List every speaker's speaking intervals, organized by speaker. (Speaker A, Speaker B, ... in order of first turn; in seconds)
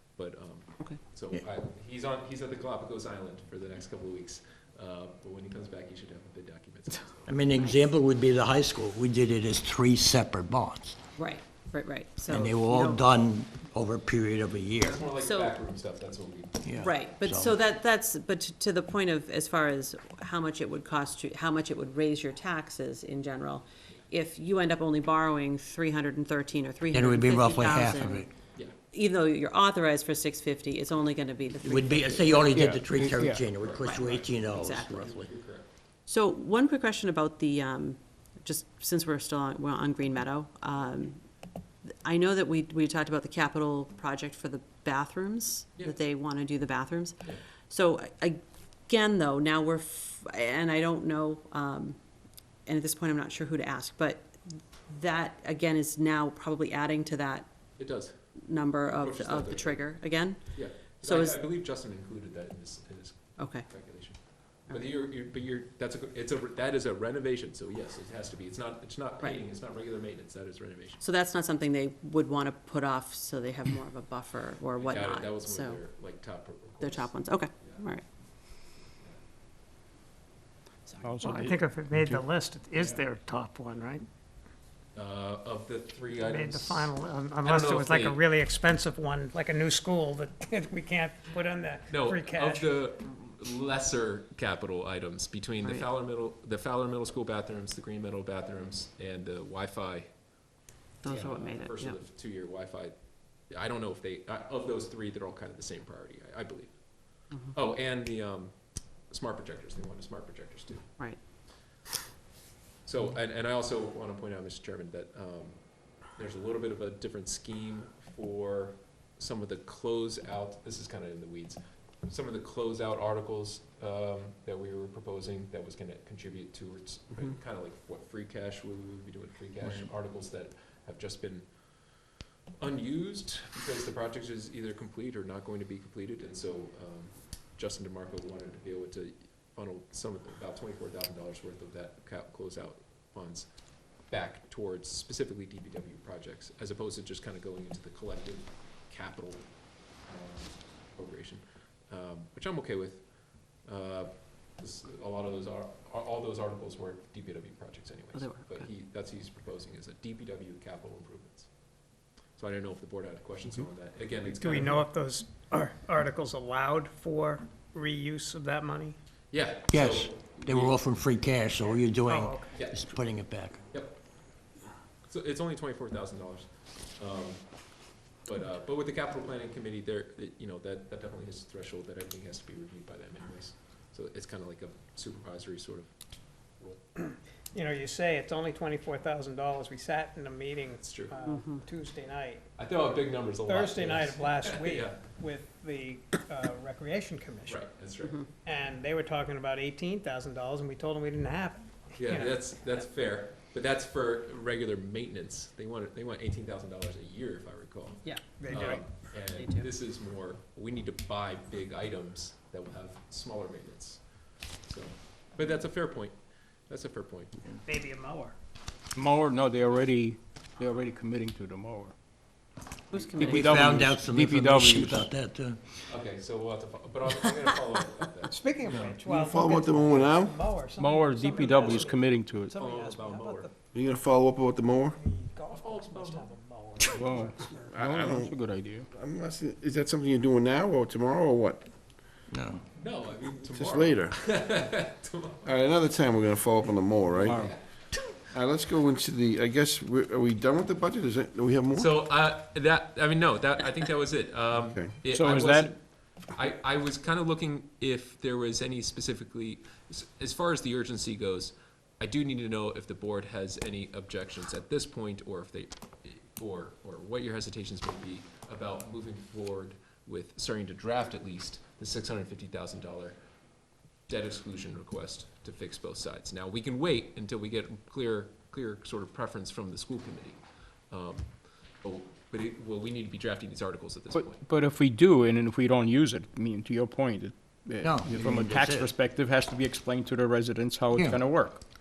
Speaker A: 0.2-7.4, 14.8-16.9, 33.5-35.7, 57.8-58.1, 59.0-59.8, 60.5-71.0, 74.8-77.8, 85.0-86.9, 87.4-88.2, 91.9-100.1, 101.1-103.0, 103.5-106.8, 107.5-108.5, 109.1-110.9, 112.9-115.6, 116.1-131.5, 132.6-143.5, 144.1-149.5, 150.1-153.1, 153.7-161.5, 162.4-164.9, 169.3-170.8, 172.5-172.9, 173.7-174.0, 175.1-177.5, 178.2-185.9, 190.8-191.2, 192.6-195.0, 197.5-198.2, 202.0-214.0, 214.6-217.4, 222.9-223.6, 225.9-229.0, 232.6-233.5, 235.5-237.2, 242.8-245.5, 247.2-247.6, 251.8-273.2, 274.1-284.4
Speaker B: 7.3-11.0, 12.3-15.0, 16.6-17.6, 26.9-28.3, 31.6-35.3, 169.7-173.6, 223.3-225.8, 242.3-242.7, 287.8-288.9, 290.9-291.2
Speaker C: 11.2-13.0, 15.1-15.5, 16.8-28.3, 28.9-32.6, 33.9-35.2, 36.1-41.2, 41.9-47.2, 47.7-52.0, 52.7-57.5, 58.4-61.4, 63.4-63.7, 71.0-75.8, 76.8-78.0, 101.0-102.0, 158.1-158.7, 191.2-191.6, 209.3-209.7, 222.9-223.6
Speaker D: 32.5-33.4, 81.0-82.2, 208.5-208.8, 218.9-221.9, 223.2-225.1, 230.8-232.6, 236.9-238.9, 247.2-247.5, 255.1-255.7, 284.1-291.6
Speaker E: 81.2-84.0, 86.2-92.7, 164.2-169.0, 172.1-172.5, 187.5-192.5, 193.5-197.7, 198.4-202.4, 208.0-208.8, 217.7-218.3, 228.3-233.5, 234.8-237.8
Speaker F: 229.1-230.4, 233.7-235.0, 237.7-238.4, 238.9-241.7, 243.5-244.2, 245.4-247.5, 248.3-251.9, 254.6-254.9